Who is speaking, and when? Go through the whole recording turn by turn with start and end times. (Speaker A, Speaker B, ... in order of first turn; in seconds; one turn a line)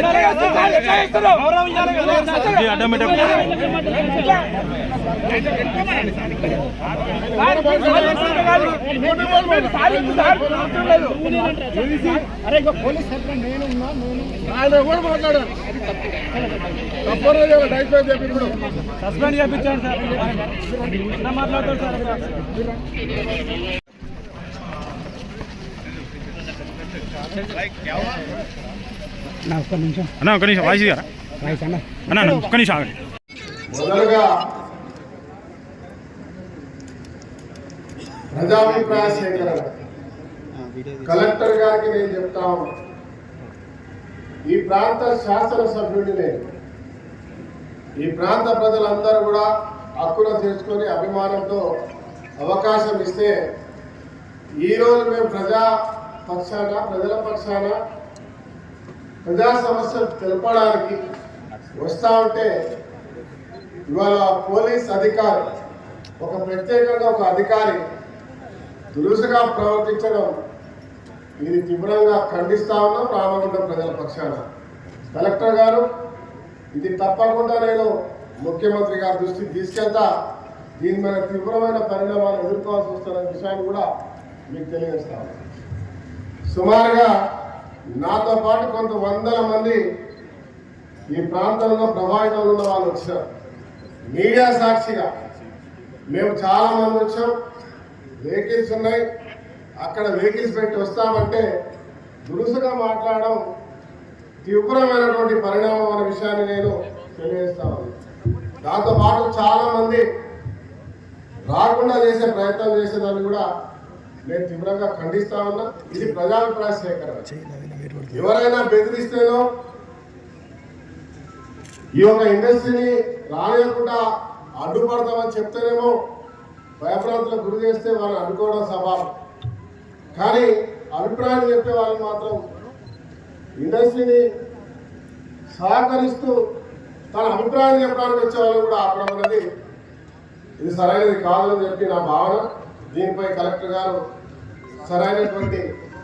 Speaker A: 2.0-3.7
Speaker B: 7.1-11.2
Speaker C: 12.7-13.2
Speaker B: 14.4-15.5
Speaker B: 17.1-18.6
Speaker C: 19.4-20.0
Speaker C: 21.3-21.7
Speaker A: 30.2-33.0
Speaker B: 33.7-34.3
Speaker B: 38.3-39.7
Speaker C: 38.9-39.3
Speaker C: 40.6-41.0
Speaker B: 41.0-42.7
Speaker B: 44.5-46.4
Speaker B: 48.0-49.5
Speaker B: 50.0-51.6
Speaker B: 52.4-53.4
Speaker B: 54.6-55.7
Speaker B: 56.3-57.8
Speaker B: 59.2-61.0
Speaker B: 61.8-62.5
Speaker B: 63.9-65.5
Speaker B: 66.2-67.8
Speaker B: 68.9-70.3
Speaker B: 71.4-74.4
Speaker B: 75.1-75.8
Speaker B: 76.8-77.9
Speaker B: 78.4-80.1
Speaker B: 80.8-83.9
Speaker B: 84.5-85.4
Speaker B: 86.5-87.1
Speaker B: 88.0-89.8
Speaker B: 91.1-93.2
Speaker B: 94.1-95.1
Speaker B: 96.1-97.3
Speaker B: 98.2-99.0
Speaker B: 99.8-101.5
Speaker B: 102.3-103.4
Speaker B: 104.5-107.9
Speaker B: 108.6-110.0
Speaker B: 111.5-113.5
Speaker B: 114.3-117.3
Speaker C: 117.3-118.1
Speaker B: 118.1-119.4
Speaker B: 122.0-124.0
Speaker B: 124.6-125.9
Speaker B: 126.8-129.1
Speaker B: 130.2-132.4
Speaker B: 133.6-134.2
Speaker B: 135.5-136.4
Speaker B: 137.1-139.4
Speaker B: 140.6-144.0
Speaker B: 144.8-145.7